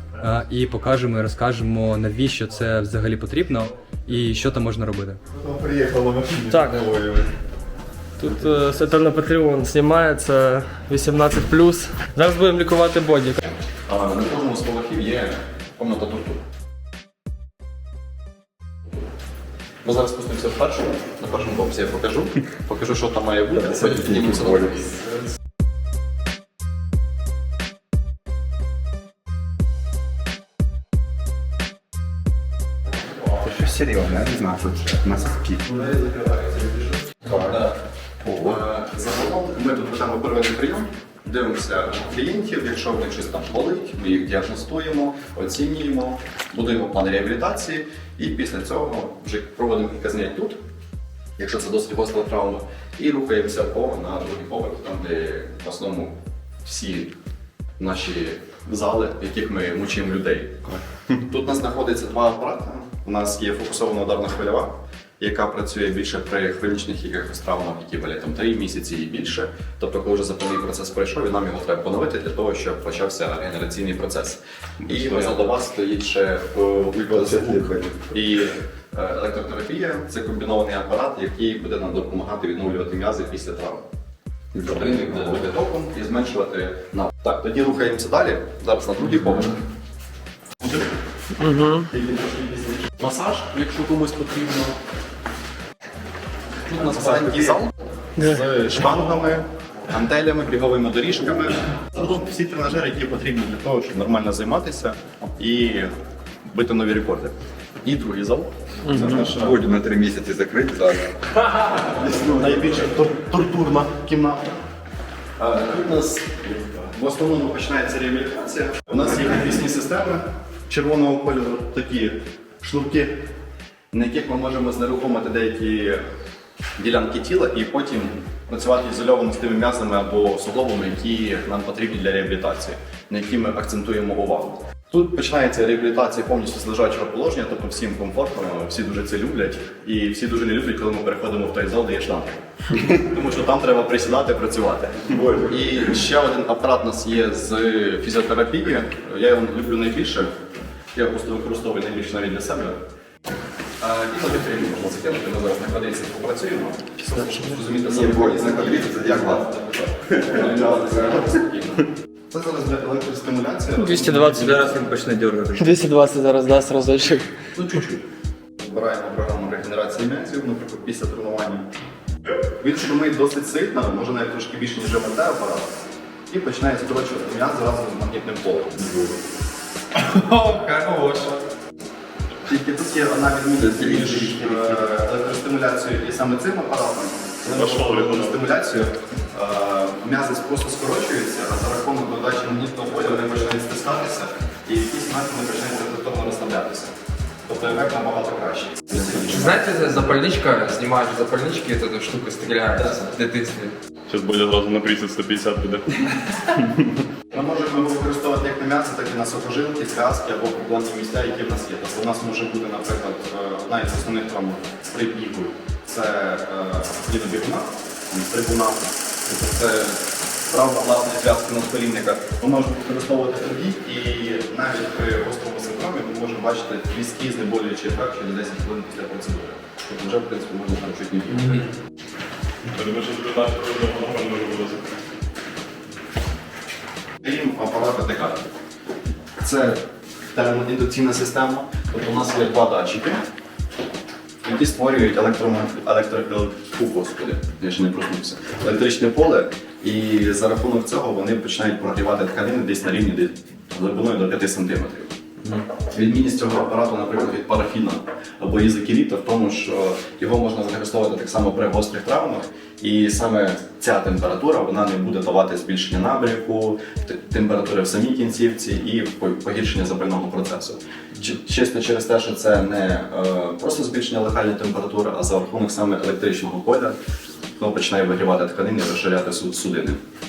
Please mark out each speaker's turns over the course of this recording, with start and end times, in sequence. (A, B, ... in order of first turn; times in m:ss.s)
0:00.2-0:05.2 A
0:05.3-0:07.3 B
0:06.5-0:06.9 C
0:08.2-0:13.5 C
0:13.8-0:16.4 D
0:19.8-0:25.2 D
0:23.5-0:24.9 B
0:33.2-0:35.7 B
0:35.7-0:37.8 D
0:37.2-0:38.6 B
0:38.4-0:50.6 D
0:51.4-0:57.1 D
0:57.8-1:23.8 D
1:14.9-1:15.3 B
1:16.9-1:18.0 B
1:24.5-1:25.4 B
1:24.6-1:29.6 D
1:30.6-1:30.9 D
1:31.4-1:31.9 C
1:31.9-1:34.7 D
1:36.6-1:45.9 D
1:38.2-1:38.5 C
1:46.4-1:49.6 D
1:48.8-1:49.2 C
1:48.9-1:52.8 B
1:52.0-1:54.6 D
1:55.4-2:03.3 D
2:03.9-2:06.0 D
2:06.8-2:30.3 D
2:30.9-2:32.8 D
2:33.8-2:44.8 D
2:37.8-2:39.5 B
2:40.0-2:41.3 B
2:43.8-2:44.7 C
2:44.3-2:45.8 A
2:45.6-2:47.4 C
2:47.5-2:48.0 D
2:48.6-2:51.7 D
2:52.6-2:55.7 D
2:56.3-2:59.0 D
2:59.9-3:01.4 E
3:02.4-3:16.9 D
3:07.5-3:08.4 F
3:17.4-3:19.7 D
3:19.1-3:23.7 E
3:24.1-3:26.8 F
3:27.3-3:51.6 D
3:52.7-3:54.8 F
3:57.2-3:58.4 D
3:59.4-4:03.2 D
4:04.4-4:15.1 D
4:15.8-4:37.0 D
4:37.6-4:40.0 D